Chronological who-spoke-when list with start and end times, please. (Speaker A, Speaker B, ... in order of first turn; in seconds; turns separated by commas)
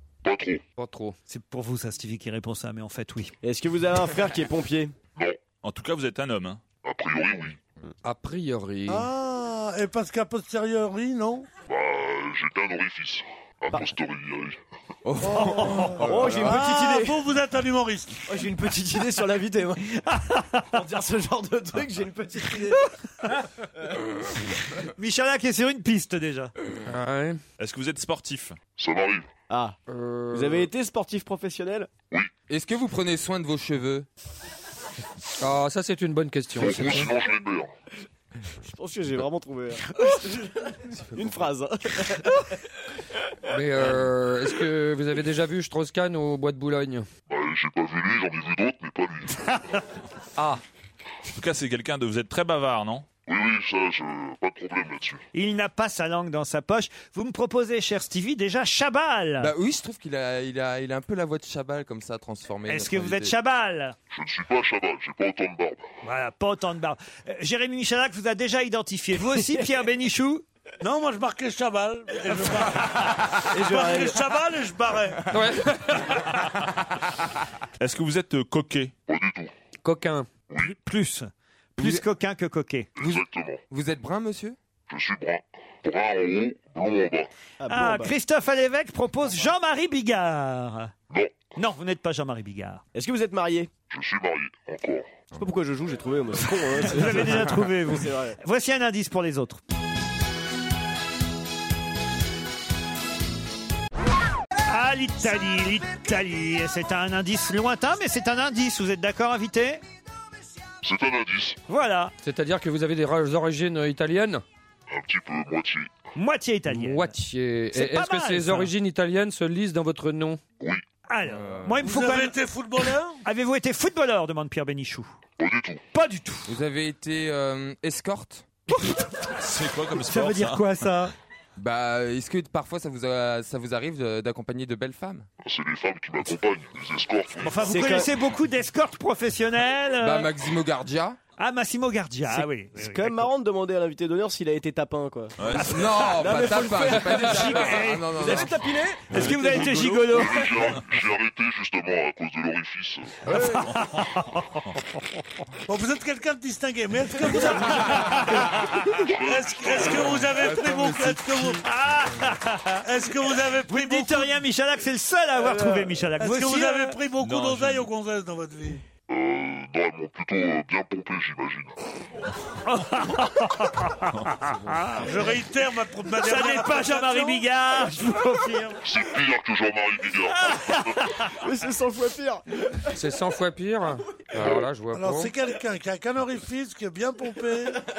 Speaker A: 0.2-0.6, Speaker B: 0.8-1.2, Speaker C: 1.3-3.3, Speaker D: 3.4-4.9, Speaker E: 5.6-6.6, Speaker A: 6.8-7.7, Speaker B: 8.0-9.1, Speaker F: 8.9-11.5, Speaker A: 11.7-14.6, Speaker G: 15.1-16.6, Speaker F: 15.3-18.3, Speaker C: 15.4-15.9, Speaker D: 16.0-17.2, Speaker D: 18.3-19.8, Speaker C: 19.9-20.7, Speaker D: 20.7-22.9, Speaker C: 24.8-26.5, Speaker B: 26.9-27.4, Speaker E: 27.6-28.6, Speaker A: 28.8-29.3, Speaker D: 29.5-29.8, Speaker B: 29.9-30.6, Speaker D: 30.3-31.9, Speaker G: 32.5-34.0, Speaker B: 35.4-37.1, Speaker A: 36.5-37.7, Speaker D: 38.6-40.5, Speaker G: 41.1-41.4, Speaker D: 41.1-42.3, Speaker B: 43.5-47.1, Speaker A: 47.3-49.6, Speaker E: 51.3-53.1, Speaker A: 53.3-55.2, Speaker C: 55.3-59.5, Speaker G: 59.4-63.3, Speaker C: 62.7-63.9, Speaker A: 64.1-65.8, Speaker C: 66.0-70.4, Speaker F: 70.8-75.3, Speaker C: 72.5-72.8, Speaker D: 73.5-74.2, Speaker B: 75.3-76.2, Speaker E: 77.8-78.9, Speaker A: 79.1-79.5, Speaker B: 79.8-80.3, Speaker C: 80.6-82.9, Speaker A: 83.0-83.6, Speaker G: 83.7-84.6, Speaker A: 84.9-87.3, Speaker D: 87.6-88.1, Speaker C: 87.7-90.9, Speaker A: 91.1-91.4, Speaker C: 91.5-92.8, Speaker D: 92.9-93.7, Speaker A: 93.9-95.2, Speaker D: 95.3-98.4, Speaker C: 96.9-99.6, Speaker C: 104.7-109.8, Speaker A: 110.8-111.6, Speaker C: 111.7-112.1, Speaker B: 112.2-114.4, Speaker A: 114.9-115.9, Speaker C: 116.1-117.1, Speaker B: 116.7-120.4, Speaker C: 117.7-118.7, Speaker C: 121.1-122.4, Speaker G: 121.3-121.8, Speaker F: 121.8-123.2, Speaker C: 123.2-125.1, Speaker A: 125.4-125.8, Speaker C: 125.9-126.5, Speaker G: 126.5-128.5, Speaker C: 128.7-129.2, Speaker E: 129.4-130.7, Speaker C: 130.0-131.1, Speaker G: 131.6-135.3, Speaker A: 135.4-137.7, Speaker C: 137.4-140.3, Speaker D: 137.6-138.1, Speaker G: 140.0-141.2, Speaker C: 141.4-143.2, Speaker D: 142.3-145.4, Speaker E: 145.4-145.7, Speaker C: 145.6-148.5, Speaker G: 145.6-148.6, Speaker D: 146.1-150.4, Speaker C: 149.1-150.4, Speaker A: 150.1-153.2, Speaker E: 153.3-154.1, Speaker C: 153.3-154.4, Speaker F: 155.7-161.6, Speaker C: 157.3-159.0, Speaker A: 159.0-160.1, Speaker G: 160.1-161.6, Speaker C: 161.6-162.8, Speaker F: 162.8-164.3, Speaker C: 163.7-167.0, Speaker D: 165.5-165.7, Speaker F: 166.2-168.8, Speaker E: 167.2-167.9, Speaker A: 169.1-171.8, Speaker C: 172.6-175.1, Speaker F: 175.0-177.4, Speaker C: 176.2-178.8, Speaker A: 178.8-180.9, Speaker C: 180.4-181.3, Speaker D: 181.4-182.4, Speaker B: 182.9-185.3, Speaker F: 184.9-187.8